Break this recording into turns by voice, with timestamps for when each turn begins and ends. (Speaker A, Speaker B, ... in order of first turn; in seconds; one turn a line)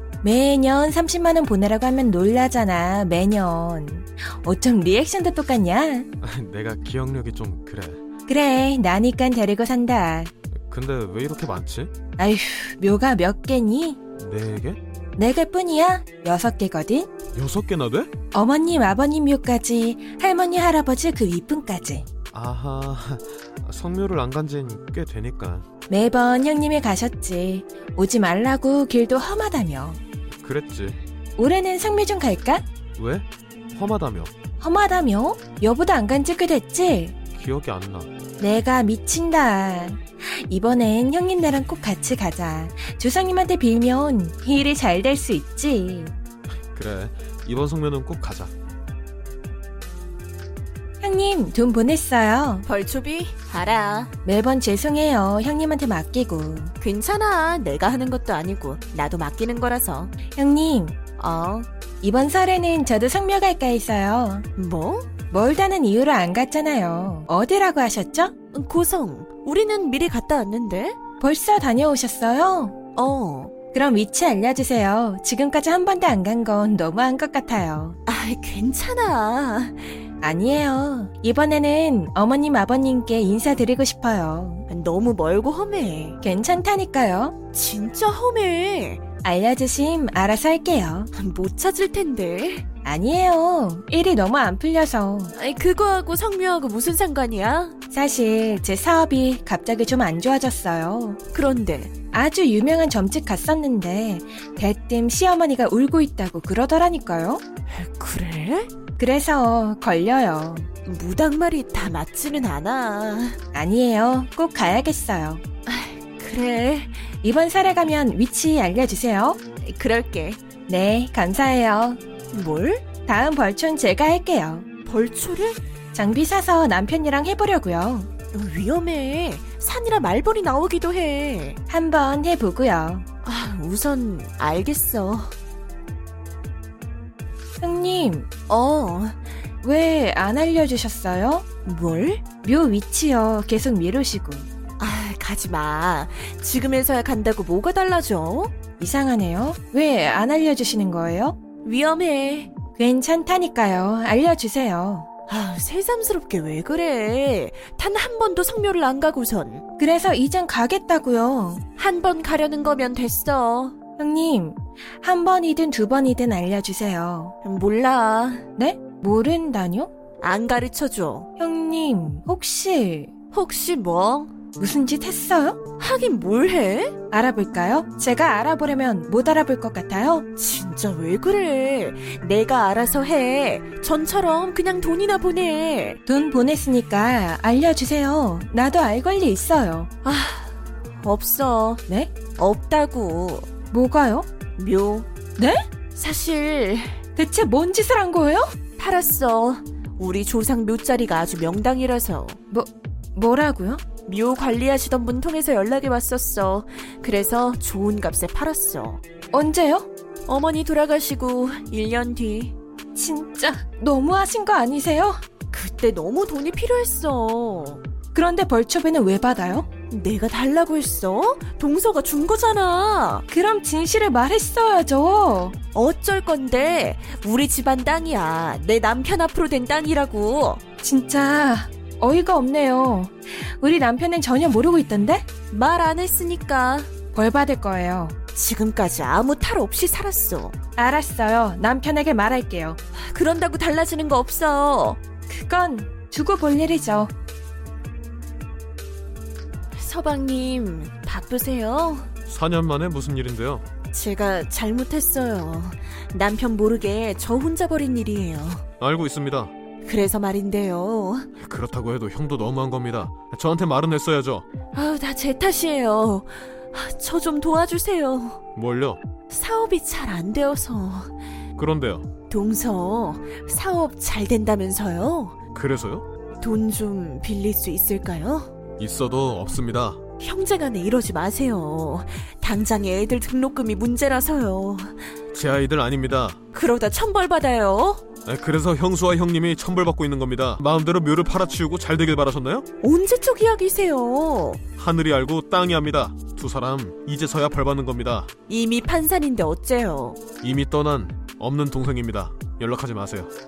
Speaker A: 0.2-6.1
Speaker B: 6.2-8.0
Speaker A: 8.3-10.3
Speaker B: 10.7-11.9
Speaker A: 12.2-14.0
Speaker B: 14.2-14.8
Speaker A: 15.2-17.1
Speaker B: 17.4-18.1
Speaker A: 18.3-22.1
Speaker B: 22.3-25.7
Speaker A: 25.9-30.0
Speaker B: 30.4-31.0
Speaker A: 31.4-32.6
Speaker B: 33.0-34.3
Speaker A: 34.6-37.2
Speaker B: 37.3-38.1
Speaker A: 38.4-46.1
Speaker B: 46.7-48.5
Speaker A: 51.0-52.7
Speaker C: 52.6-54.1
Speaker A: 54.2-56.7
Speaker C: 56.8-60.1
Speaker A: 60.3-61.0
Speaker C: 61.2-61.7
Speaker A: 62.0-64.5
Speaker C: 64.6-65.1
Speaker A: 65.3-68.3
Speaker C: 68.5-71.0
Speaker A: 71.2-72.8
Speaker C: 73.0-73.5
Speaker A: 73.7-78.0
Speaker C: 78.1-80.0
Speaker A: 80.2-84.7
Speaker C: 84.7-86.2
Speaker A: 86.2-87.3
Speaker C: 87.5-89.0
Speaker A: 89.2-91.1
Speaker C: 91.1-92.7
Speaker A: 92.8-95.3
Speaker C: 95.4-97.8
Speaker A: 97.9-101.2
Speaker C: 101.3-101.9
Speaker A: 102.1-107.4
Speaker C: 107.7-108.7
Speaker A: 109.0-110.7
Speaker C: 110.8-113.4
Speaker A: 113.5-115.4
Speaker C: 115.7-117.1
Speaker A: 117.2-119.4
Speaker C: 119.6-120.4
Speaker A: 120.7-122.0
Speaker C: 122.3-122.9
Speaker A: 123.1-124.7
Speaker C: 124.8-125.6
Speaker A: 125.9-128.1
Speaker C: 128.3-131.6
Speaker A: 131.7-133.1
Speaker C: 133.2-135.3
Speaker A: 137.6-138.3
Speaker C: 138.5-139.2
Speaker A: 139.6-141.5
Speaker C: 141.7-142.2
Speaker A: 142.4-144.5
Speaker C: 144.8-148.5
Speaker A: 148.8-151.4
Speaker C: 151.6-152.6
Speaker A: 152.7-155.1
Speaker C: 155.3-159.7
Speaker A: 159.8-161.6
Speaker C: 161.8-163.8
Speaker A: 164.0-167.3
Speaker C: 167.4-168.4
Speaker A: 168.6-169.9
Speaker C: 170.2-171.3
Speaker A: 171.4-173.1
Speaker C: 173.3-174.3
Speaker A: 174.6-175.6
Speaker C: 175.8-177.0
Speaker A: 177.1-180.3
Speaker C: 180.4-186.0
Speaker A: 186.1-189.9
Speaker C: 190.0-191.8
Speaker C: 192.3-193.5
Speaker A: 193.7-194.3
Speaker C: 194.6-195.1
Speaker A: 195.4-195.7
Speaker C: 195.9-197.0
Speaker A: 197.2-198.6
Speaker C: 198.8-202.4
Speaker A: 202.5-203.8
Speaker C: 204.1-209.0
Speaker A: 209.3-209.9
Speaker C: 210.3-212.6
Speaker A: 212.9-215.2
Speaker C: 215.5-217.8
Speaker A: 218.1-219.7
Speaker C: 219.9-223.2
Speaker A: 223.3-225.6
Speaker C: 225.8-230.6
Speaker A: 230.8-235.2
Speaker C: 235.5-236.9
Speaker A: 237.1-238.2
Speaker C: 238.3-240.6
Speaker A: 240.8-242.8
Speaker C: 242.9-245.0
Speaker A: 245.3-247.1
Speaker C: 249.7-252.1
Speaker B: 252.3-253.6
Speaker C: 253.9-258.6
Speaker B: 258.8-259.5
Speaker C: 259.8-261.3
Speaker B: 261.4-264.4
Speaker C: 264.7-268.4
Speaker B: 268.6-269.0
Speaker C: 269.3-271.1
Speaker B: 271.6-272.1
Speaker C: 272.3-275.4
Speaker B: 275.5-276.1
Speaker C: 276.4-278.5
Speaker B: 278.8-280.0
Speaker C: 280.2-285.1
Speaker B: 285.3-286.4
Speaker C: 286.5-288.0
Speaker B: 288.3-292.7
Speaker C: 292.8-294.6
Speaker B: 294.8-298.3
Speaker C: 298.5-300.2
Speaker B: 300.4-303.3